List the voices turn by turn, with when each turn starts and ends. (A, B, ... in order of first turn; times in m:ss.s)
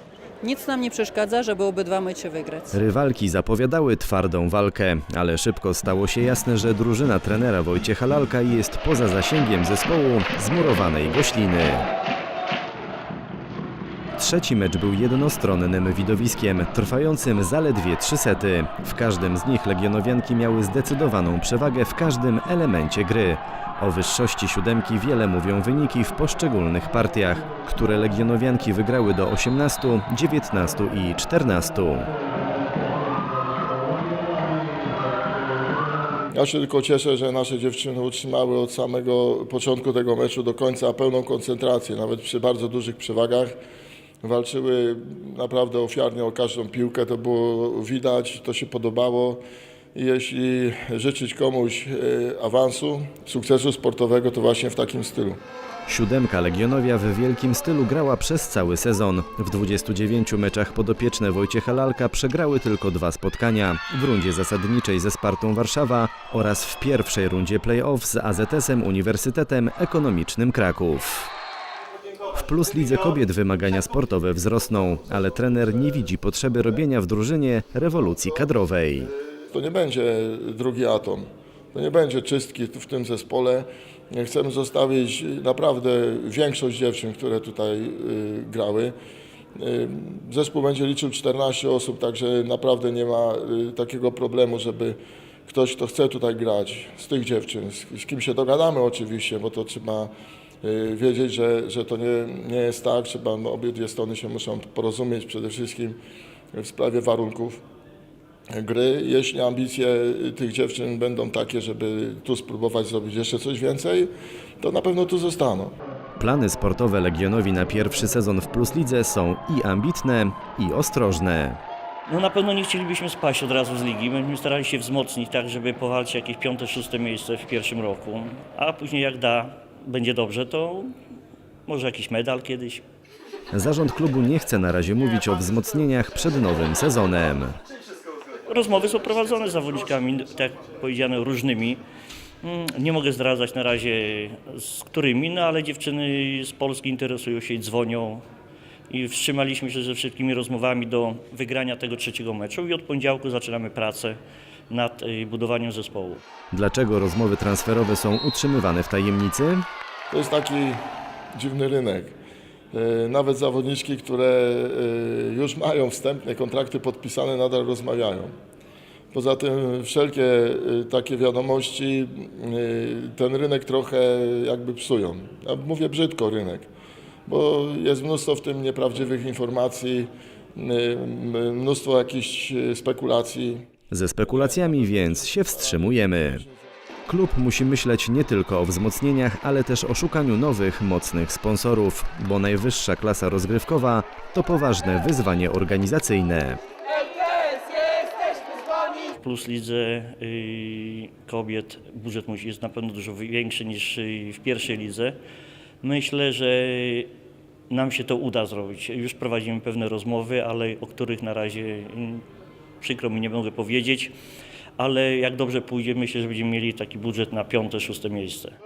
0:00.4-0:02.8 A
0:02.7-0:11.9 B
0:14.2-0:32.1 B
0:36.3-0:43.6 C
0:44.2-0:49.4 C
0:50.0-0:55.4 C
0:55.9-1:11.3 B
1:12.3-1:19.1 B
1:19.5-1:28.9 C
1:29.6-1:40.1 C
1:40.6-1:46.0 C
1:46.5-1:47.6 C
1:48.5-1:55.8 C
1:56.2-2:01.6 B
2:02.1-2:10.9 D
2:11.7-2:12.8 D
2:13.5-2:17.6 B
2:18.5-2:21.8 D
2:22.4-2:28.2 D
2:28.9-2:34.2 D
2:34.7-2:36.2 D
2:36.5-2:39.6 B
2:40.1-2:40.8 C
2:41.4-2:42.2 C
2:42.7-2:48.3 C
2:49.1-2:56.7 C
2:57.3-3:03.7 C
3:03.9-3:06.4 B
3:04.2-3:06.5 C
3:07.1-3:16.6 B
3:19.2-3:25.2 D
3:25.8-3:27.1 D
3:27.7-3:32.2 D
3:32.8-3:34.1 D
3:34.8-3:38.6 D